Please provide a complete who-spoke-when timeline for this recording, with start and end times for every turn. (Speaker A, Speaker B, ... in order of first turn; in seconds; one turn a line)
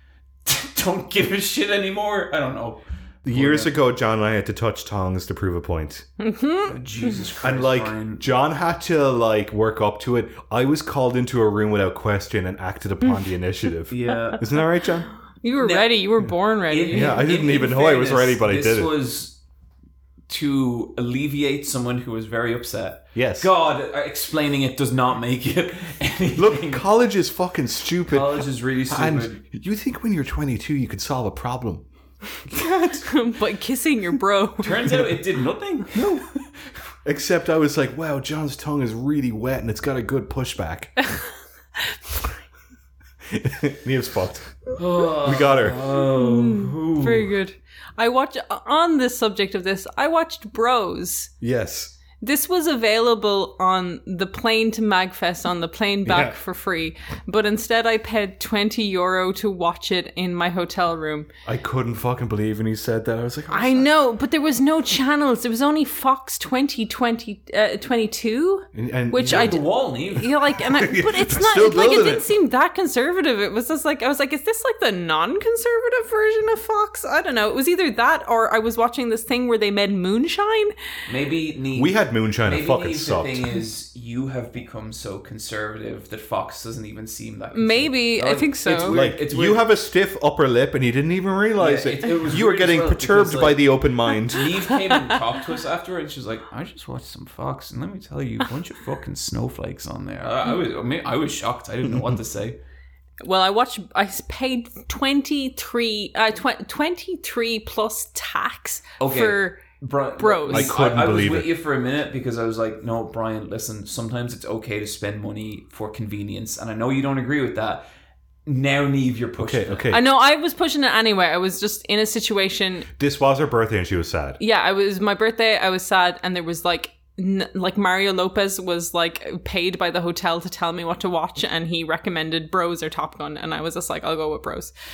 Speaker A: 0.5-3.7
Speaker B: 3.2-6.1
Speaker C: 6.2-7.1
Speaker A: 6.7-8.2
Speaker B: 7.4-15.1
Speaker A: 13.9-14.5
Speaker C: 15.4-17.2
Speaker A: 15.6-15.9
Speaker A: 16.7-19.4
Speaker B: 16.9-18.9
Speaker A: 20.3-26.8
Speaker B: 23.1-23.5
Speaker B: 26.4-31.9
Speaker A: 28.1-29.4
Speaker B: 32.5-33.1
Speaker C: 32.6-35.0
Speaker A: 34.6-36.1
Speaker B: 35.9-36.2
Speaker B: 37.0-41.0
Speaker B: 43.3-45.9
Speaker A: 44.8-47.3
Speaker C: 46.0-51.3
Speaker B: 51.4-52.0
Speaker C: 52.2-61.3
Speaker B: 56.0-56.4
Speaker B: 61.5-63.9
Speaker C: 63.5-80.7
Speaker B: 68.7-69.6
Speaker A: 69.2-70.3
Speaker B: 70.6-72.3
Speaker A: 81.1-89.7
Speaker B: 81.8-83.4
Speaker C: 87.5-89.0
Speaker B: 88.9-94.5
Speaker A: 91.6-102.6
Speaker C: 94.8-95.2
Speaker C: 103.2-109.6
Speaker A: 109.0-117.8
Speaker C: 110.2-110.7
Speaker B: 110.5-111.5
Speaker A: 118.5-119.9
Speaker B: 119.4-120.0
Speaker C: 119.9-122.9
Speaker B: 123.0-124.4
Speaker C: 124.4-134.7